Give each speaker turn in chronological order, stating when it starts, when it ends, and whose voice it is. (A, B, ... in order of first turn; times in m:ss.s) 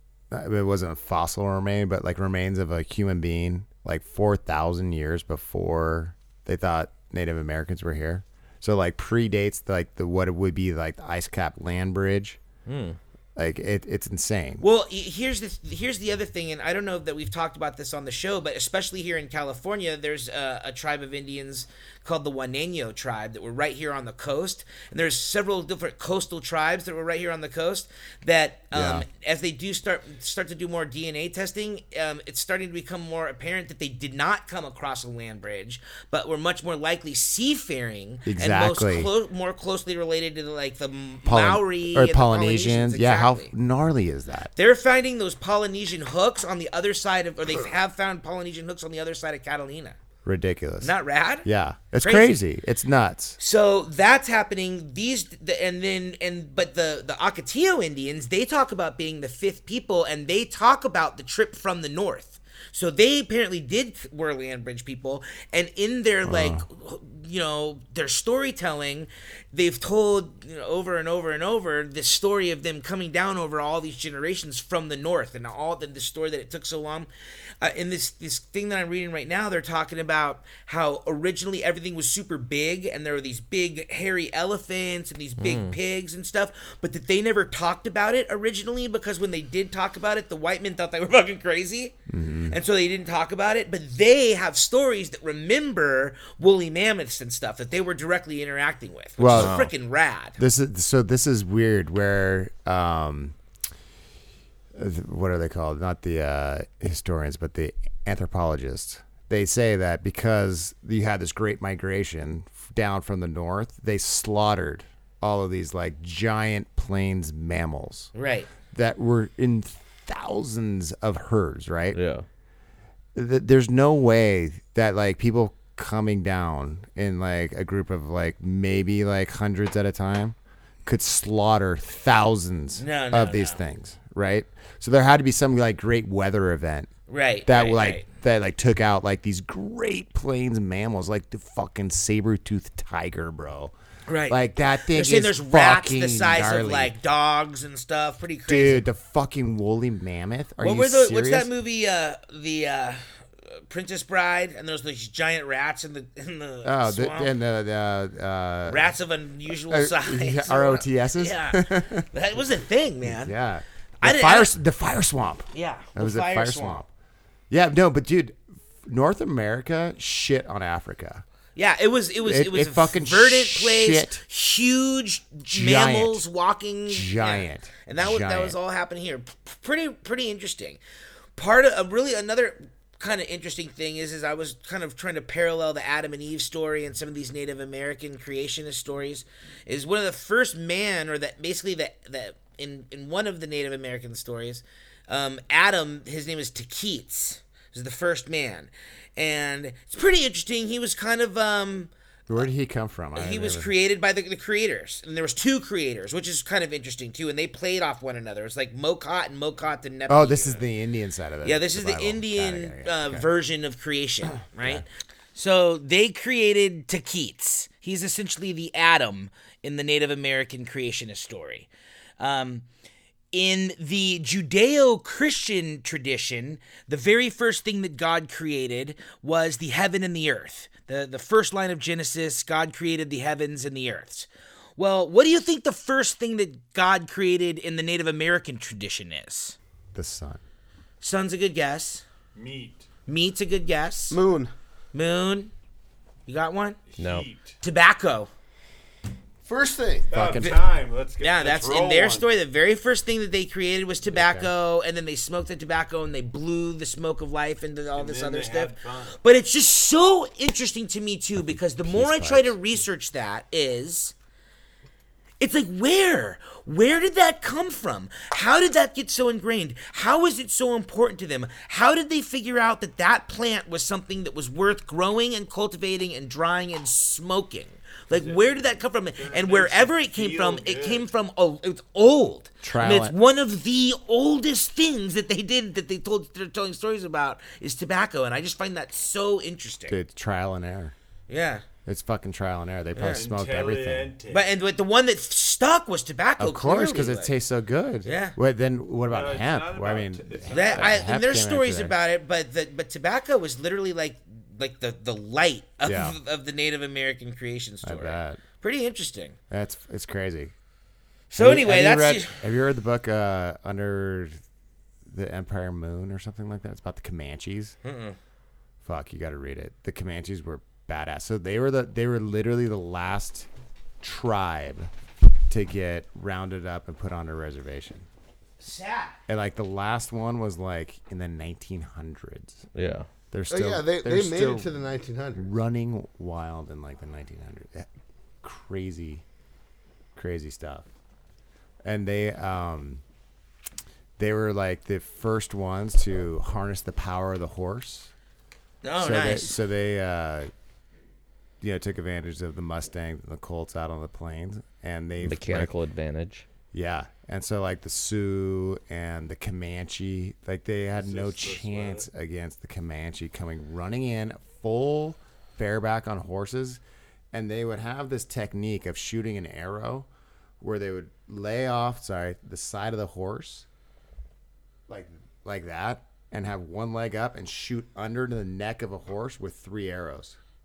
0:00.3-0:12.4 A
0:12.7-0:13.0 B
0:13.4-0:14.6 A
0:14.6-0:43.5 C
0:28.7-0:29.1 A
0:38.2-0:39.1 A
0:41.3-0:44.5 A
0:44.6-0:50.0 C
0:50.2-0:50.9 A
0:50.8-0:51.5 C
0:51.4-0:53.4 A
0:52.0-0:52.4 C
0:53.4-1:17.1 C
1:06.2-1:06.6 A
1:17.6-1:32.0 C
1:25.4-1:25.8 B
1:32.1-1:32.6 A
1:32.5-1:40.4 C
1:39.2-1:39.7 A
1:39.3-1:39.7 B
1:40.4-1:43.4 A
1:44.8-1:58.1 A
1:58.2-1:58.5 C
1:58.7-2:02.0 A
2:01.9-2:02.3 B
2:03.2-2:10.4 A
2:10.9-2:16.9 A
2:12.8-2:13.6 C
2:17.1-2:18.0 C
2:17.5-2:23.7 A
2:24.1-2:28.9 C
2:24.3-2:27.0 A
2:28.5-2:31.5 A
2:30.6-2:37.3 C
2:36.6-2:38.8 A
2:38.7-2:43.4 C
2:39.7-2:42.1 A
2:43.0-2:46.9 A
2:44.0-2:44.5 C
2:45.5-2:46.8 C
2:47.5-2:51.2 A
2:51.6-3:00.8 C
2:52.2-2:54.2 A
2:55.5-2:56.2 A
2:56.9-2:58.6 A
3:01.4-3:21.9 C
3:22.3-3:23.7 A
3:23.2-3:30.6 C
3:30.1-3:33.3 A
3:31.4-3:41.7 C
3:34.6-3:34.8 A
3:42.2-3:42.6 C
3:43.3-3:59.6 C
3:59.9-4:00.4 A
4:01.0-4:02.0 C
4:02.4-4:02.9 D
4:03.1-4:04.2 C
4:04.1-4:04.5 E
4:04.9-4:05.5 C
4:06.3-4:06.8 C
4:06.9-4:07.6 D
4:07.0-4:07.3 B
4:07.6-4:08.3 C
4:09.4-4:10.1 E
4:10.1-4:12.3 D
4:10.1-4:10.6 A
4:11.2-4:24.1 C
4:14.0-4:14.5 A
4:17.9-4:19.2 D
4:21.4-4:22.6 A
4:25.4-4:50.0 C
4:38.1-4:41.1 D
4:42.6-4:43.2 A
4:49.9-4:50.9 A
4:51.3-4:51.6 C
4:51.8-4:54.2 A
4:52.9-4:53.3 C
4:53.1-4:54.5 D
4:54.3-4:57.4 C
4:56.4-5:02.0 A
4:58.0-4:58.4 C
4:59.1-5:01.1 D
5:00.5-5:09.4 C
5:05.8-5:06.2 A
5:07.8-5:08.4 A
5:09.5-5:10.5 A
5:11.3-5:12.4 C
5:11.4-5:14.4 A
5:15.1-5:17.8 A
5:17.8-5:18.2 C
5:18.8-5:23.5 A
5:24.0-5:24.9 A
5:25.5-5:28.1 A
5:28.6-5:29.2 C
5:29.3-5:32.6 A
5:32.8-5:33.1 B
5:33.3-5:34.7 A
5:33.5-5:35.4 E
5:35.3-5:37.9 A
5:38.4-5:39.2 A
5:40.2-5:40.8 A
5:41.8-5:43.0 A
5:44.2-5:48.1 A
5:48.8-5:49.6 C
5:49.0-5:50.5 A
5:51.6-5:55.7 A
5:55.2-5:56.5 B
5:56.7-6:06.8 A
6:01.0-6:02.1 D
6:07.3-6:10.1 A
6:10.6-6:13.6 A
6:14.9-6:20.4 A